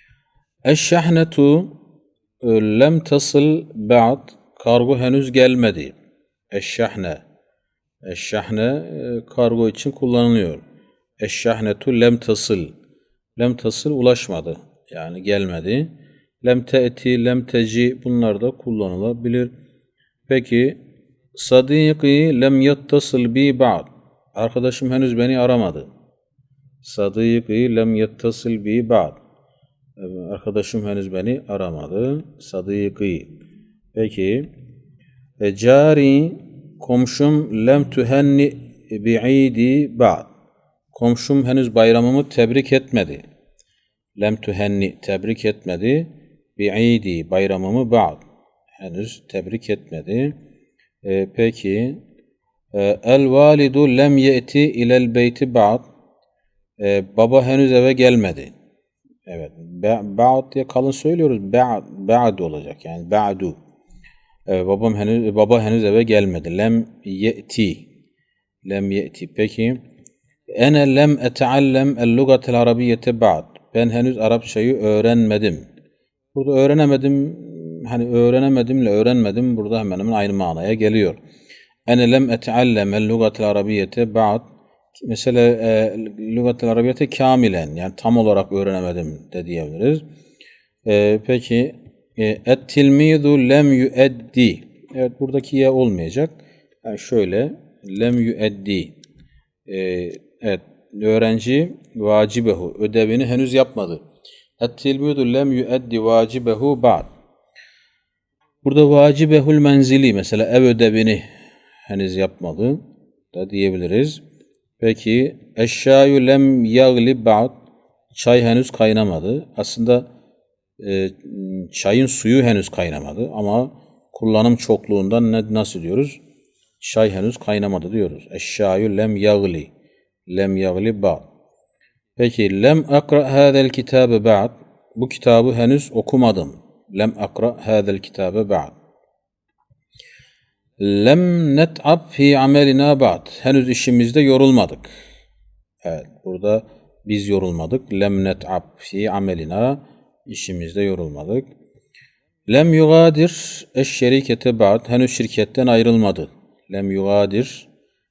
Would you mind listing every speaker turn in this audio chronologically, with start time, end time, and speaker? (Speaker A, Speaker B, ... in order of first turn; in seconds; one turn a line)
Speaker A: 0.7-1.8
Speaker A: 2.4-6.0
Speaker A: 6.5-7.2
Speaker A: 8.1-10.6
Speaker A: 11.2-12.8
Speaker A: 13.4-19.5
Speaker A: 20.3-20.8
Speaker A: 21.3-25.9
Speaker A: 26.8-29.2
Speaker A: 30.0-33.4
Speaker A: 34.0-34.5
Speaker A: 35.4-40.3
Speaker A: 40.9-43.2
Speaker A: 44.2-48.2
Speaker A: 48.8-50.4
Speaker A: 51.0-52.0
Speaker A: 52.7-55.9
Speaker A: 56.8-58.5
Speaker A: 59.3-63.6
Speaker A: 64.5-67.9
Speaker A: 68.7-69.8
Speaker A: 70.6-75.7
Speaker A: 76.3-81.2
Speaker A: 81.9-90.0
Speaker A: 90.8-99.0
Speaker A: 99.7-104.0
Speaker A: 104.6-107.1
Speaker A: 108.6-111.3
Speaker A: 111.9-112.8
Speaker A: 113.3-114.2
Speaker A: 114.8-117.6
Speaker A: 118.1-120.1
Speaker A: 120.8-126.2
Speaker A: 126.8-129.7
Speaker A: 130.3-131.3
Speaker A: 132.2-138.8
Speaker A: 140.8-144.9
Speaker A: 145.8-151.5
Speaker A: 152.5-157.7